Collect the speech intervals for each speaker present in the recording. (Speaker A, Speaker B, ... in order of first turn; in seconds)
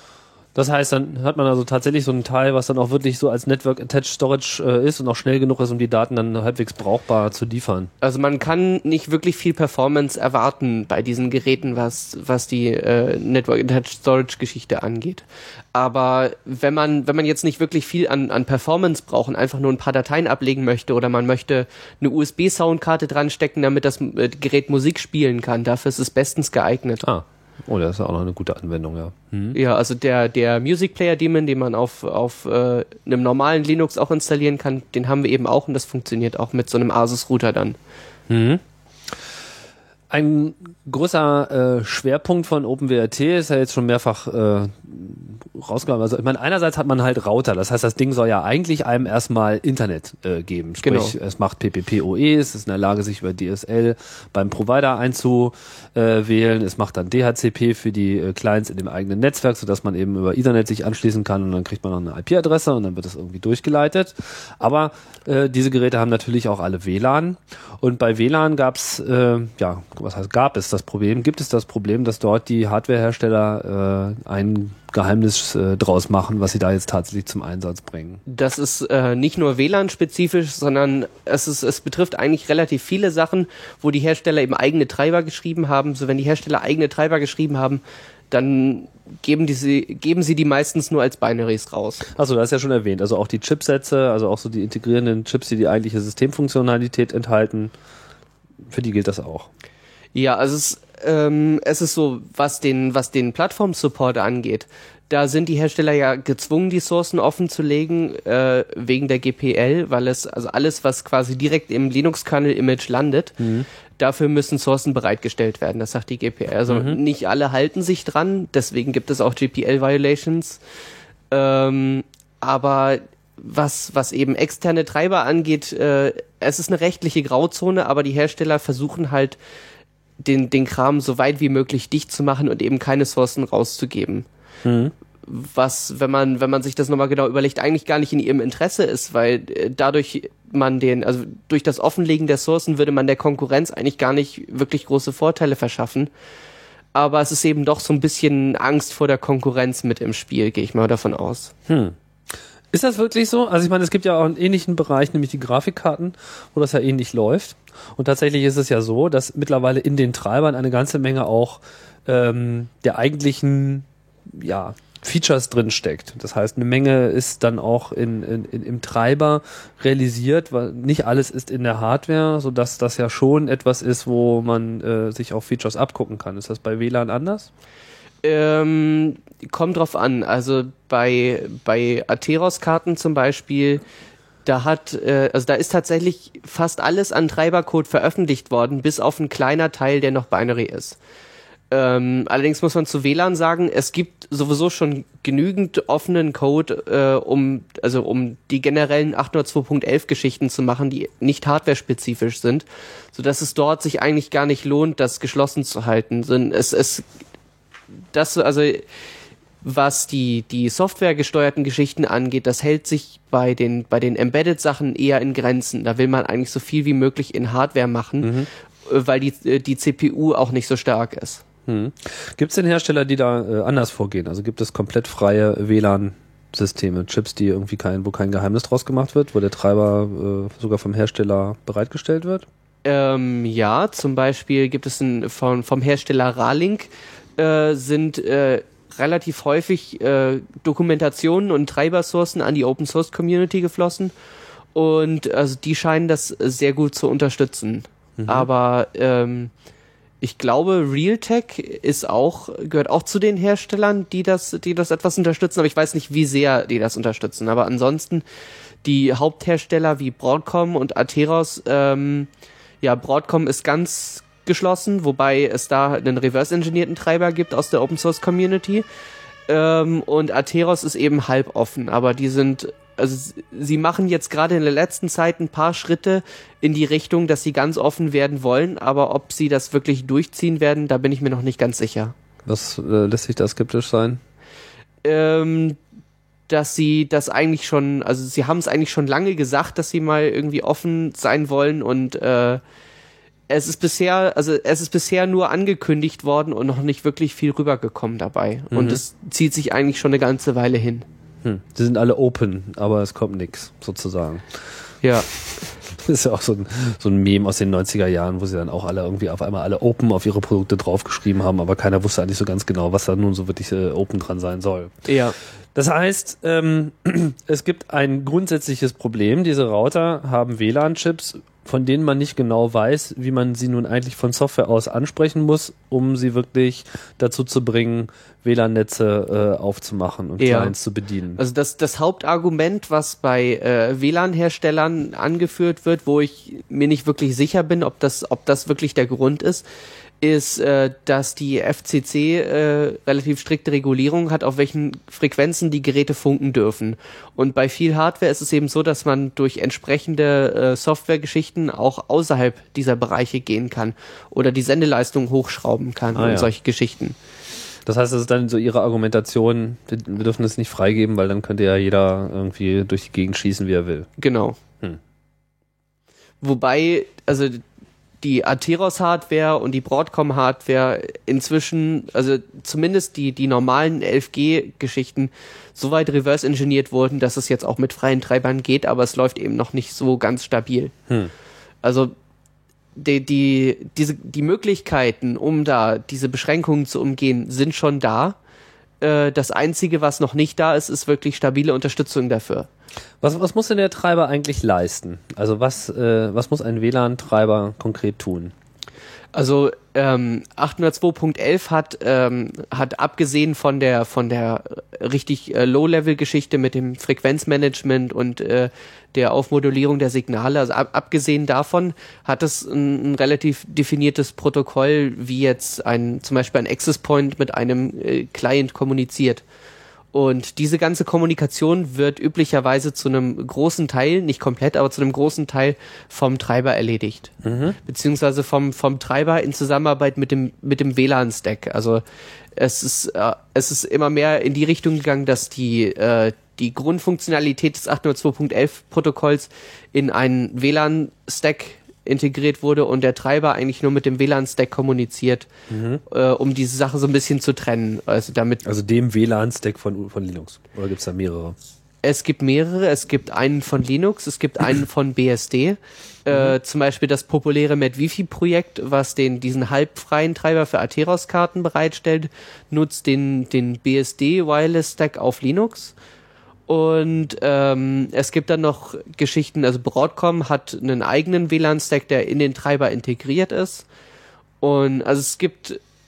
Speaker A: 0.5-7.9, 27.0-29.6, 38.3-38.6, 40.1-78.2, 92.1-97.7, 98.7-99.5, 113.4-113.7, 116.7-117.0, 134.6-134.9, 151.7-151.9, 152.7-177.5, 218.2-218.5, 221.7-232.5, 248.2-248.5, 282.4-284.2, 298.7-299.0, 301.4-304.6, 305.9-314.9, 315.7-331.4, 356.1-356.5, 357.9-364.1, 393.2-398.5, 427.4-427.8, 445.7-446.0, 448.6-451.6
Speaker B: 8.0-27.0, 29.5-37.8, 50.8-51.1, 78.3-92.0, 100.1-113.4, 114.0-120.6, 121.3-129.4, 130.2-134.2, 135.2-146.1, 146.9-151.5, 178.2-183.8, 184.4-191.0, 191.7-207.0, 208.1-208.8, 209.6-221.4, 232.8-244.1, 244.7-249.5, 250.2-258.2, 258.8-262.3, 262.8-268.8, 269.5-282.1, 285.0-285.8, 286.5-292.6, 293.5-301.0, 305.0-305.3, 315.1-315.4, 330.4-330.7, 331.4-339.6, 340.2-357.2, 364.2-364.6, 366.4-367.6, 368.2-380.9, 381.8-382.1, 382.9-388.4, 389.0-392.7, 399.3-419.4, 420.1-427.3, 427.8-432.0, 432.6-445.5, 446.1-448.6, 452.0-465.9, 466.7-473.8, 474.6-475.8